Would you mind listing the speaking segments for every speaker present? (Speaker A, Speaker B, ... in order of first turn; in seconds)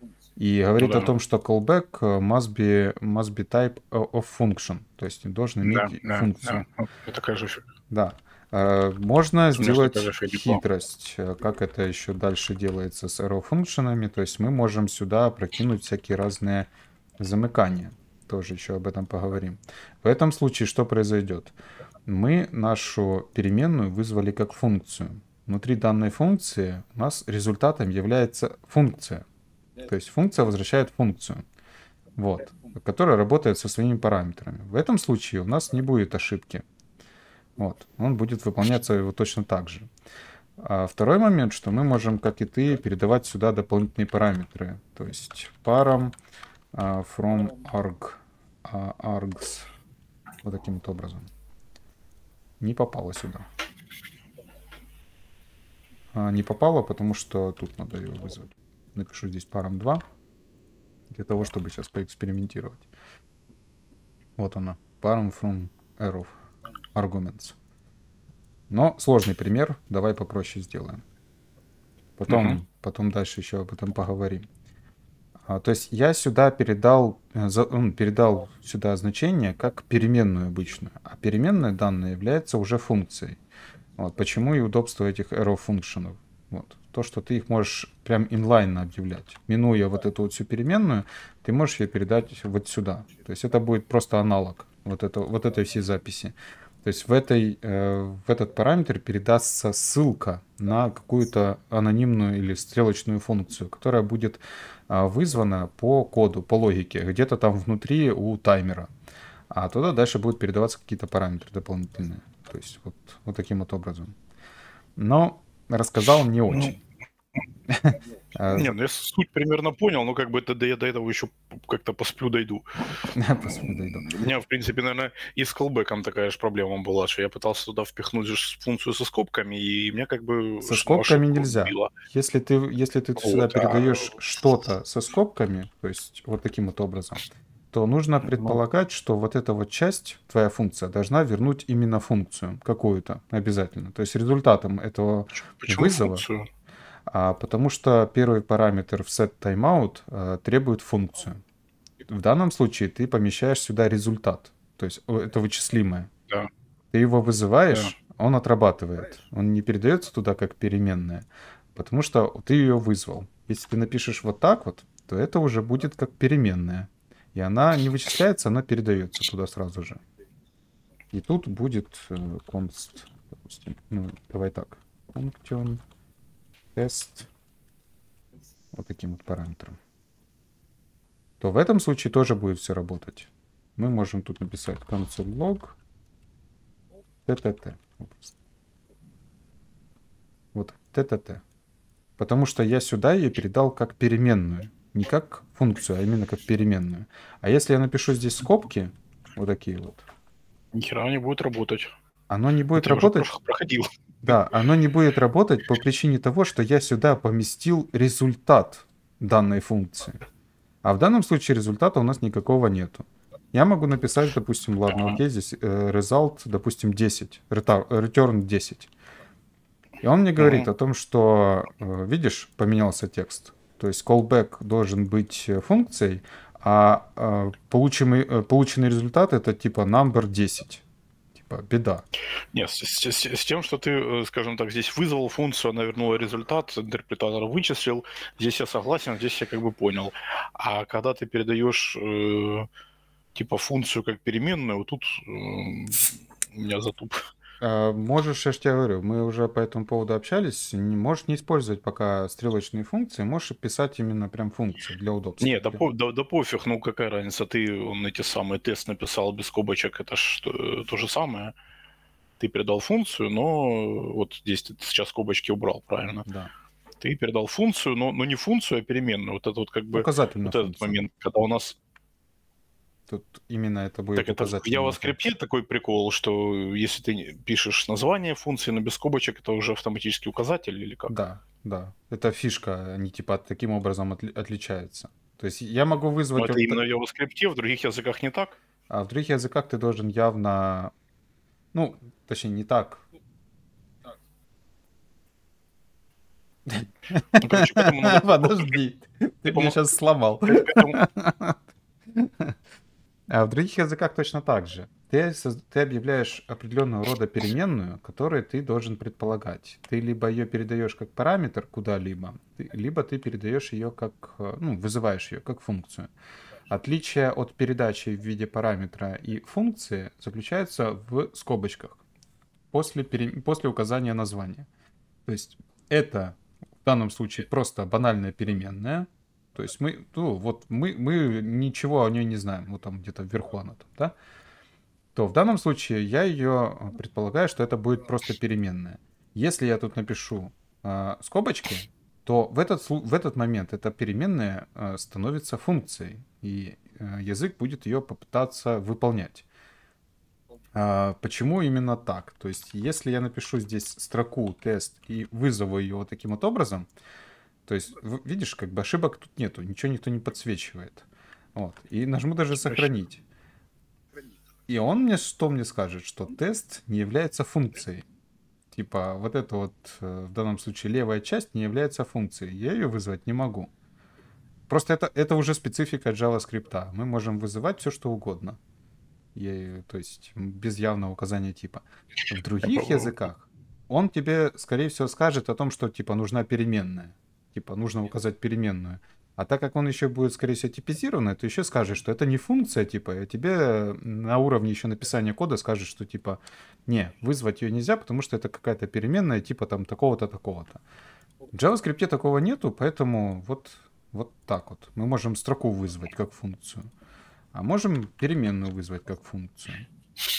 Speaker A: 0.3-6.6, 7.9-16.7, 17.2-21.5, 22.1-29.2, 29.8-31.4, 32.2-36.6, 37.6-39.9, 40.6-46.1, 46.7-49.7, 50.4-51.3, 52.6-53.5, 56.1-60.0, 61.1-62.9, 64.4-66.3, 66.9-67.6, 68.7-71.0, 72.2-74.5, 75.5-83.4, 84.0-108.9, 109.5-114.2, 115.0-116.8, 117.7-118.7, 123.1-124.2, 130.6-146.2, 147.1-151.4, 152.1-156.1, 156.9-170.0, 171.1-175.8, 176.7-177.3, 178.7-179.8, 181.4-185.8, 187.2-188.3, 190.5-191.4, 192.2-200.1, 202.3-203.3, 204.2-210.2, 210.8-218.9, 220.0-230.8, 231.3-232.1, 247.6-255.8, 266.2-266.5, 269.9-271.0, 273.1-275.2, 281.1-286.8, 288.9-290.9, 291.7-293.0, 296.7-301.6, 302.1-302.5, 303.3-316.1, 316.7-322.0, 322.7-324.7, 325.2-334.1, 335.1-349.5, 350.7-356.9, 357.6-363.2, 364.7-368.0, 368.7-373.7, 374.7-378.6, 379.3-400.8, 401.5-406.9, 407.5-409.9
Speaker B: 0.8-1.1, 5.6-7.7, 9.6-10.6, 72.3-72.6, 116.5-116.7, 118.5-122.7, 123.6-131.9, 133.2-134.1, 138.2-138.6, 145.6-146.5, 200.7-201.9, 202.8-203.9, 220.4-220.7, 232.5-242.7, 243.3-247.2, 255.4-261.5, 262.4-266.2, 267.0-271.8, 274.1-281.1, 286.3-288.6, 297.4-298.8, 299.4-299.8, 300.5-301.0, 362.6-362.9, 382.6-383.1